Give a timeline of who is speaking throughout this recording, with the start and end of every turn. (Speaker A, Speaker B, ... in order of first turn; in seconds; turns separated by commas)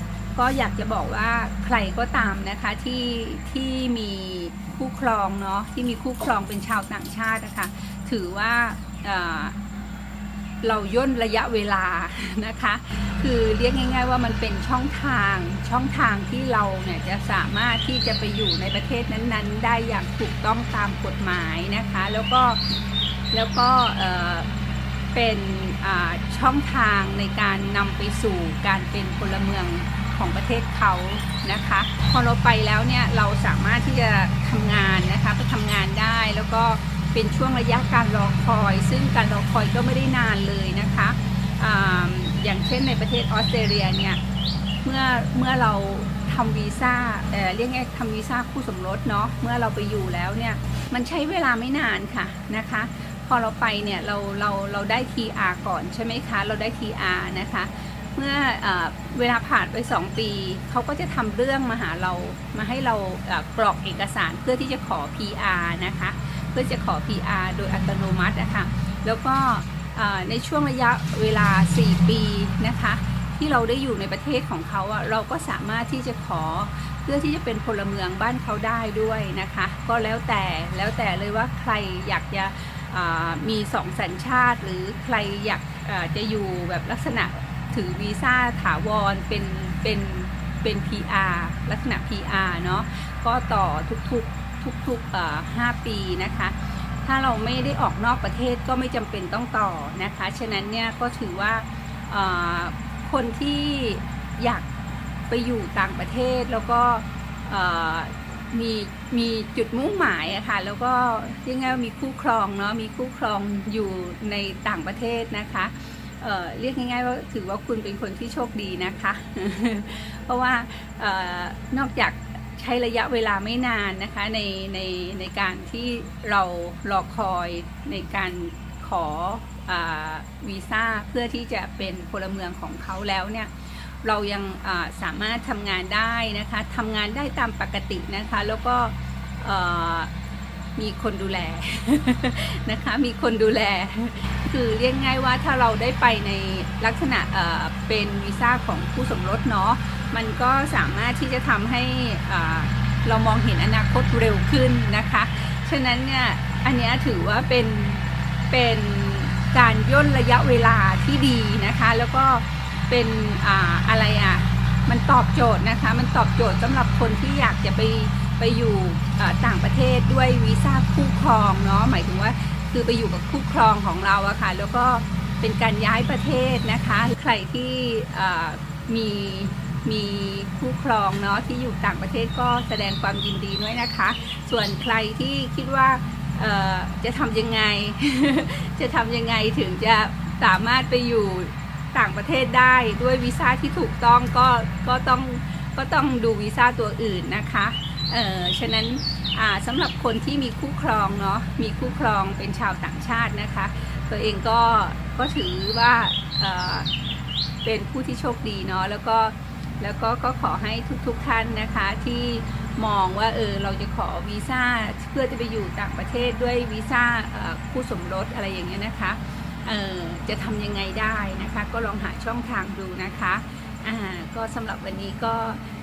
Speaker A: 0.3-9.6, Speaker A: 10.6-22.6, Speaker A: 23.3-24.5, Speaker A: 25.1-44.2, Speaker A: 44.8-104.7, Speaker A: 105.3-140.1, Speaker A: 140.8-206.9, Speaker A: 207.6-225.6